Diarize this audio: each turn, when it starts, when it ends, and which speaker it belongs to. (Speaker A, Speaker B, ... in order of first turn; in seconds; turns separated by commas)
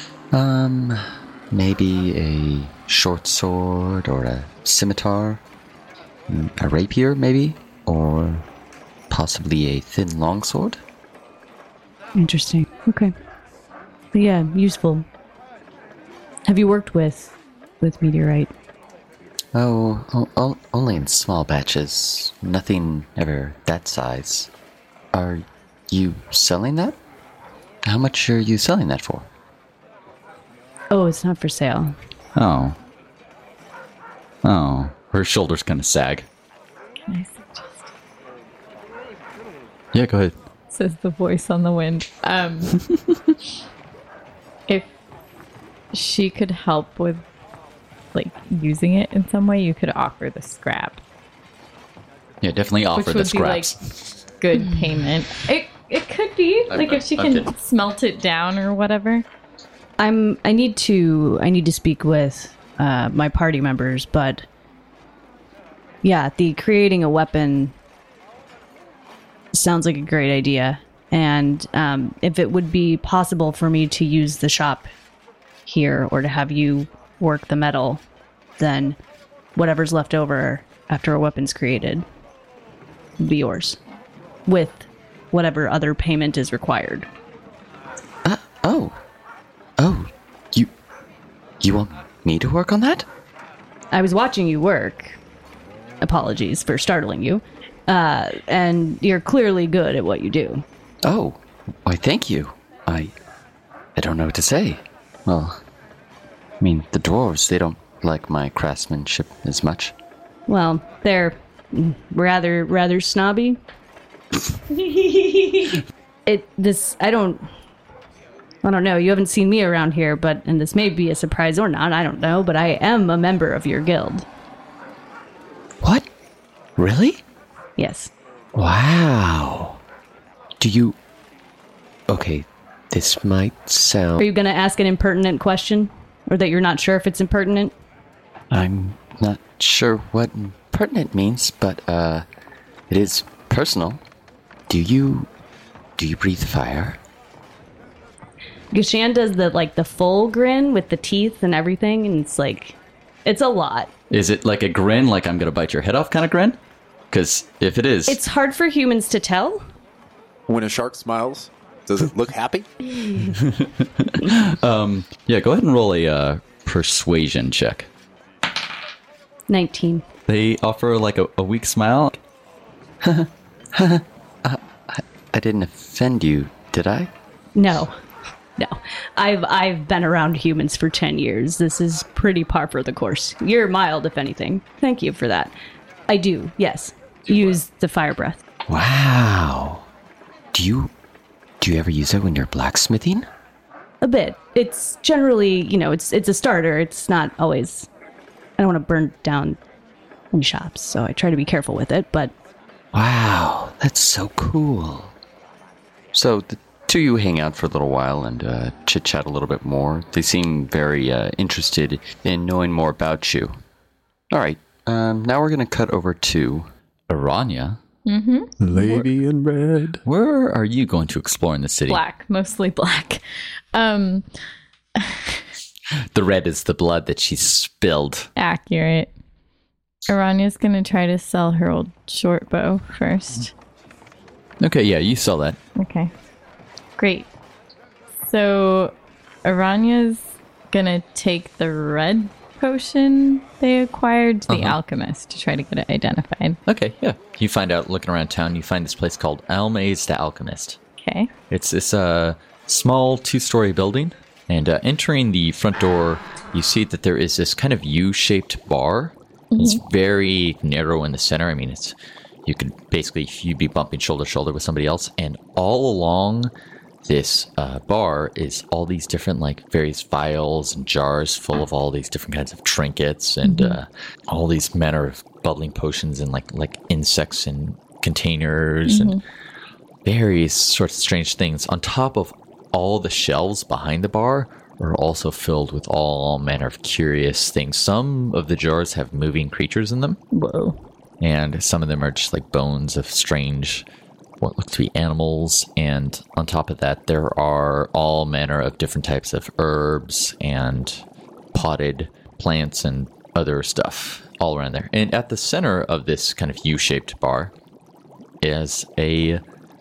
Speaker A: 0.3-5.4, Speaker A: 6.3-8.5, Speaker A: 9.1-10.8, Speaker B: 12.1-13.1, Speaker B: 14.1-15.1, Speaker B: 16.5-18.5, Speaker A: 19.5-24.5, Speaker A: 25.1-27.0, Speaker A: 27.8-29.3, Speaker B: 30.9-31.9, Speaker C: 32.4-32.8, Speaker C: 34.4-36.3, Speaker D: 37.1-37.8, Speaker C: 39.9-40.3, Speaker D: 40.7-42.8, Speaker D: 45.9-47.2, Speaker D: 48.1-51.0, Speaker C: 52.4-54.1, Speaker D: 52.9-53.7, Speaker D: 54.3-59.2, Speaker C: 56.7-57.5, Speaker B: 60.0-64.4, Speaker B: 66.0-67.7, Speaker B: 69.5-74.9, Speaker B: 75.7-78.0, Speaker B: 78.6-79.0, Speaker B: 79.5-82.0, Speaker B: 83.2-83.8, Speaker B: 84.5-87.1, Speaker A: 88.2-89.0, Speaker A: 89.8-90.7, Speaker A: 91.6-93.1, Speaker B: 93.9-95.2, Speaker B: 96.0-100.6, Speaker A: 101.0-103.1, Speaker A: 103.9-105.6, Speaker A: 106.6-109.9, Speaker B: 110.5-113.6, Speaker B: 114.7-117.5, Speaker B: 118.6-124.3, Speaker A: 125.8-126.1, Speaker A: 126.8-127.2, Speaker B: 127.8-128.1, Speaker A: 128.5-129.8, Speaker A: 130.6-131.0, Speaker A: 132.1-134.2, Speaker B: 134.2-137.7, Speaker A: 138.5-142.2, Speaker A: 142.9-144.0, Speaker A: 144.7-145.3, Speaker A: 146.0-147.0, Speaker B: 148.7-153.9, Speaker C: 154.1-156.6, Speaker C: 157.1-158.2, Speaker B: 158.1-159.6, Speaker E: 160.5-162.7, Speaker C: 163.3-167.9, Speaker B: 169.5-170.0, Speaker C: 170.3-172.2, Speaker A: 173.0-177.1, Speaker B: 177.6-177.9, Speaker B: 178.6-185.5, Speaker B: 186.1-188.4, Speaker A: 188.7-189.9, Speaker A: 190.5-190.9, Speaker A: 191.6-193.3, Speaker B: 194.0-197.9, Speaker B: 198.6-199.6, Speaker B: 200.3-202.3, Speaker A: 202.9-205.1, Speaker A: 206.1-213.5, Speaker A: 214.3-216.7, Speaker C: 217.1-217.8, Speaker D: 218.1-219.0, Speaker E: 218.6-220.0, Speaker C: 220.0-222.0, Speaker D: 221.9-223.2, Speaker D: 223.7-224.2, Speaker D: 225.0-225.4, Speaker C: 226.1-228.3, Speaker D: 228.3-229.1, Speaker D: 230.1-233.5, Speaker C: 234.6-235.6, Speaker D: 235.8-236.1, Speaker D: 237.0-237.3, Speaker D: 238.3-246.6, Speaker C: 244.5-244.8, Speaker C: 246.7-250.8, Speaker D: 251.0-251.3, Speaker C: 251.5-266.5, Speaker D: 259.5-259.8, Speaker C: 267.0-279.2, Speaker D: 273.4-273.8, Speaker D: 278.9-279.2, Speaker C: 280.0-290.2, Speaker D: 290.3-290.8, Speaker C: 291.2-293.9, Speaker C: 294.4-307.5, Speaker C: 308.4-309.4